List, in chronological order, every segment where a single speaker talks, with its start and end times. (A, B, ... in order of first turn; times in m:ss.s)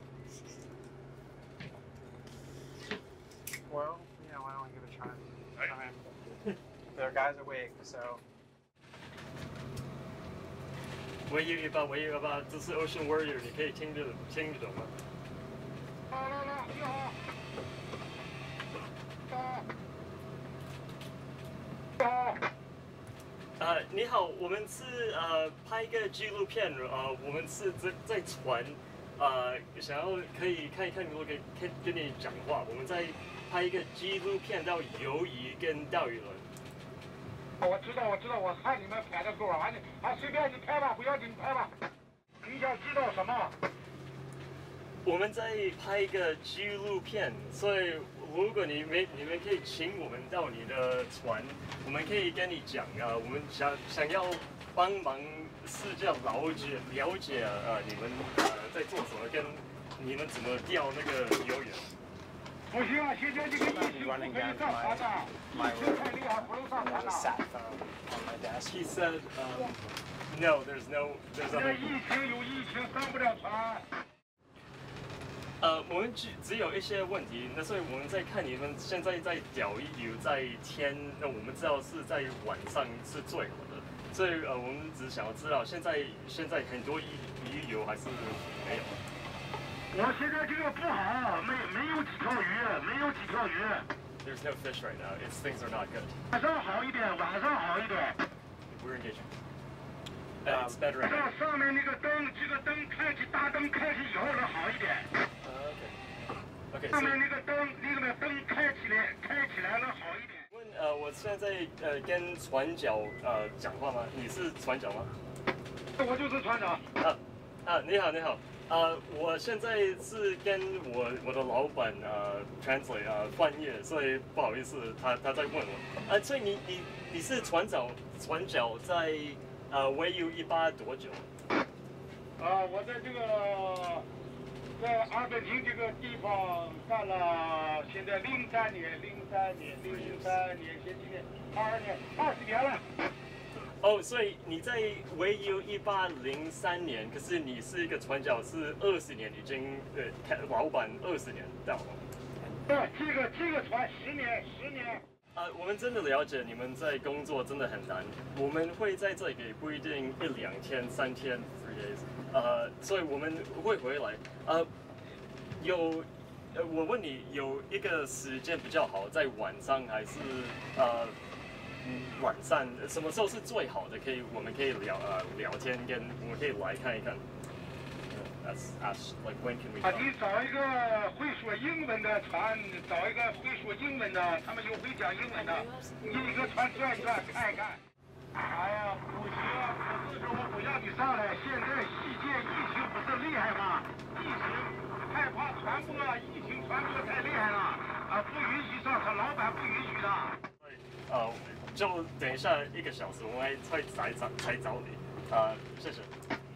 0:03.7-0:06.3 A
0:06.9-0:08.2 A
0:11.3-0:14.9 B
0:16.1-0:17.1 C
0:19.3-0:19.6 C
0:22.0-0:22.4 C
0:23.6-0:36.5 B
0:37.6-0:41.7 C
0:42.4-0:43.5 C
0:45.0-1:01.9 B
1:02.7-1:07.3 C
1:03.6-1:09.1 A
1:08.7-1:12.0 B
1:11.5-1:13.8 C
1:15.6-1:29.0 B
1:29.9-1:33.9 C
1:34.2-1:36.2 B
1:36.3-1:38.2 C
1:38.7-1:39.3 B
1:40.4-1:41.3 B
1:40.5-1:40.8 A
1:41.0-1:45.1 C
1:45.4-1:46.0 B
1:46.7-1:47.2 B
1:46.9-1:50.4 C
1:50.5-1:55.1 B
1:56.0-1:56.8 C
1:56.9-2:11.2 B
2:12.4-2:14.1 C
2:14.8-2:22.8 C
2:19.8-2:20.4 B
2:23.8-2:32.0 B
2:32.7-2:35.0 C
2:35.3-2:44.7 B
2:45.5-2:51.2 B
2:51.8-2:57.2 B
2:58.1-3:00.1 B
2:59.8-3:07.8 C
3:08.4-3:20.4 C
3:20.6-3:26.1 B